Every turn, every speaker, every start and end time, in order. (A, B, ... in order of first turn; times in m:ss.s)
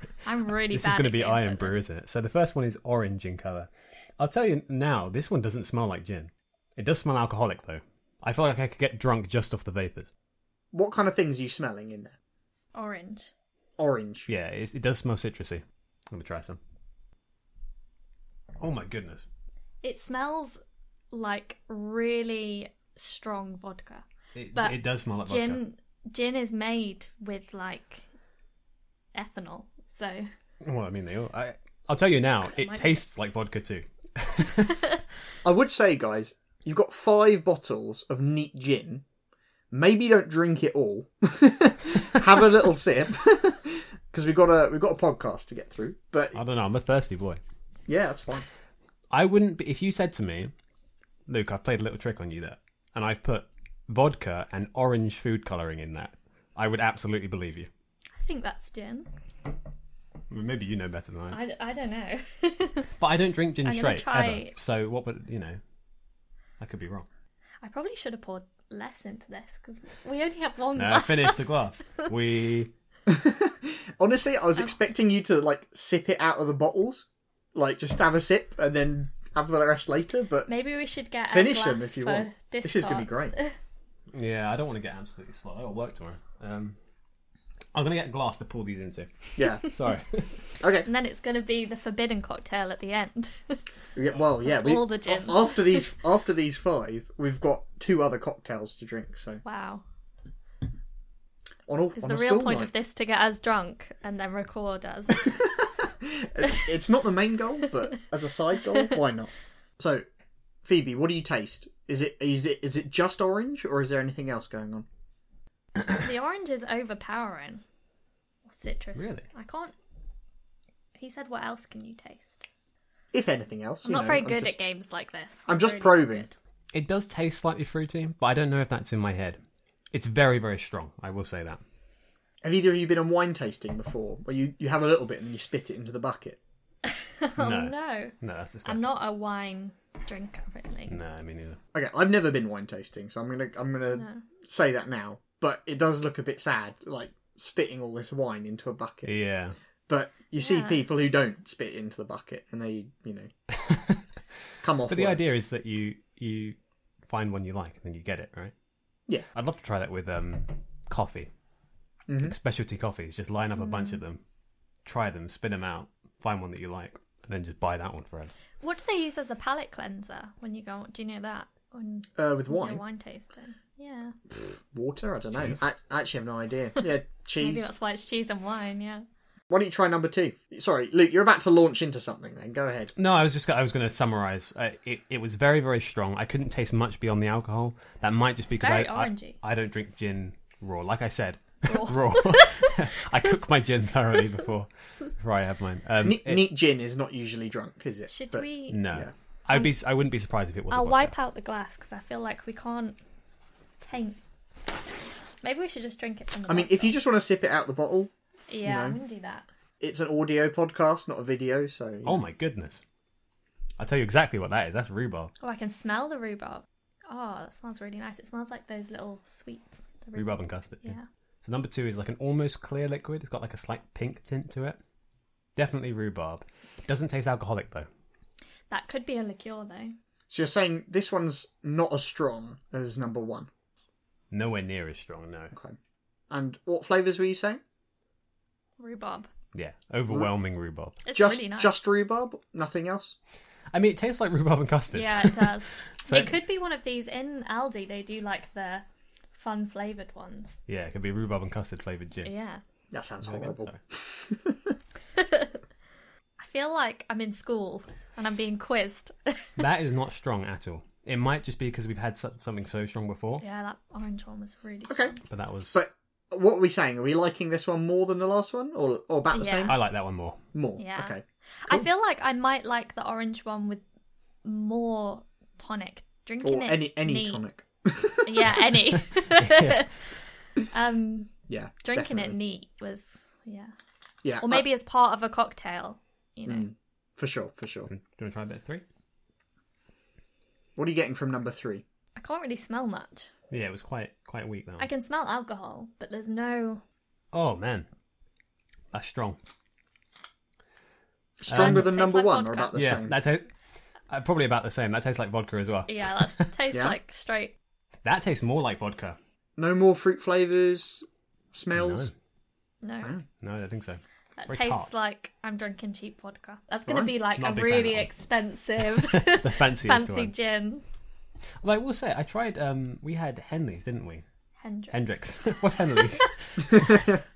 0:00.2-0:01.8 A
0:00.7-0:10.1 B
0:10.7-0:12.2 C
0:12.7-0:13.3 A
0:13.8-0:14.3 C
0:14.3-0:16.6 B
0:18.6-0:19.3 B
0:19.8-0:20.6 A
0:21.1-0:28.0 A
0:24.3-0:25.6 B
0:29.1-0:30.2 A
0:30.6-0:34.8 B
0:32.5-0:33.0 A
0:35.4-0:39.0 C
0:39.7-0:46.4 C
0:46.3-0:47.4 B
0:47.9-0:48.5 C
0:49.1-0:50.5 B
0:51.3-0:57.7 B
0:58.2-0:59.1 A
1:00.3-1:01.4 B
1:01.3-1:02.9 A
1:03.0-1:05.6 B
1:03.6-1:04.5 A
1:06.6-1:07.0 B
1:07.6-1:11.4 A
1:10.8-1:12.7 B
1:13.1-1:20.5 C
1:20.5-1:23.6 A
1:21.3-1:23.3 C
1:24.1-1:26.8 B
1:27.7-1:30.4 B
1:29.4-1:29.6 C
1:30.6-1:30.9 C
1:30.8-1:33.6 A
1:33.9-1:39.4 C
1:34.4-1:35.9 A
1:39.4-1:39.8 A
1:41.7-1:42.7 C
1:42.0-1:45.4 A
1:45.3-1:50.0 C
1:50.6-1:54.8 C
1:55.9-1:57.6 A
1:58.5-1:59.7 A
1:59.0-1:59.2 B
2:01.0-2:02.4 A
2:03.1-2:04.6 C
2:03.8-2:06.3 A
2:05.5-2:06.2 C
2:06.7-2:09.4 B
2:09.9-2:11.6 B
2:12.4-2:16.4 C
2:17.0-2:18.1 A
2:17.4-2:18.9 B
2:18.6-2:20.9 A
2:20.9-2:21.6 B
2:21.7-2:29.1 C
2:23.9-2:24.2 A
2:29.0-2:29.6 B
2:29.9-2:33.3 C
2:30.4-2:30.8 A
2:33.5-2:34.0 B
2:34.6-2:35.3 C
2:34.9-2:36.6 B
2:37.1-2:38.5 B
2:39.3-2:41.3 B
2:42.1-2:42.3 C
2:42.2-2:44.2 B
2:43.6-2:44.0 A
2:44.8-2:48.3 B
2:48.6-2:54.1 A
2:52.2-2:52.8 C
2:54.3-2:57.7 C
2:55.3-2:55.6 B
2:57.4-2:59.0 A
2:59.5-3:02.9 C
3:03.0-3:16.4 B
3:08.5-3:09.4 A
3:11.6-3:12.7 A
3:16.0-3:19.1 C
3:18.1-3:18.8 A
3:18.7-3:21.1 B
3:20.7-3:23.0 A
3:23.8-3:24.2 A
3:25.4-3:26.9 A
3:26.5-3:28.1 C
3:28.5-3:29.4 A
3:28.6-3:29.0 C
3:29.8-3:32.2 C
3:32.0-3:32.8 B
3:33.8-3:35.3 B
3:35.4-3:41.0 A
3:40.1-3:44.8 B
3:45.6-3:47.9 B
3:48.7-3:49.9 A
3:50.3-3:53.5 C
3:54.3-3:55.5 B
3:56.3-3:57.6 C
3:58.8-3:59.3 A
3:59.5-4:01.0 B
4:01.0-4:01.7 A
4:01.1-4:03.2 C
4:03.7-4:06.3 B
4:04.9-4:10.6 A
4:10.7-4:12.3 B
4:12.2-4:12.6 A
4:12.9-4:14.7 C
4:13.2-4:13.8 B
4:15.2-4:15.5 A
4:16.4-4:19.5 A
4:19.6-4:23.4 B
4:23.4-4:25.2 A
4:24.9-4:25.1 C
4:25.3-4:25.8 B
4:25.7-4:29.8 C
4:29.3-4:29.7 A
4:29.7-4:30.4 B
4:30.5-4:31.9 C
4:30.8-4:33.8 A
4:34.4-4:37.4 A
4:36.4-4:38.6 C
4:38.2-4:39.9 A
4:39.3-4:39.8 B
4:40.7-4:41.3 A
4:41.5-4:42.4 C
4:41.8-4:43.7 A
4:44.2-4:44.7 C
4:44.4-4:46.7 A
4:46.4-4:47.9 C
4:47.9-4:48.8 B
4:50.8-4:51.8 C
4:52.2-4:53.3 A
4:53.5-4:54.9 B
4:54.8-4:56.8 A
4:57.3-4:57.9 B
4:58.9-4:59.4 B
5:01.4-5:03.1 C
5:01.5-5:01.9 B
5:01.5-5:02.7 A
5:02.7-5:03.5 B
5:04.1-5:06.5 B
5:05.9-5:07.5 A
5:08.0-5:09.2 B
5:09.6-5:12.1 C
5:11.7-5:12.1 B
5:12.8-5:13.1 A
5:13.4-5:14.9 B
5:14.4-5:20.8 A
5:17.3-5:18.1 B
5:18.8-5:20.3 B
5:21.6-5:24.2 B
5:24.6-5:26.3 A
5:24.9-5:27.0 B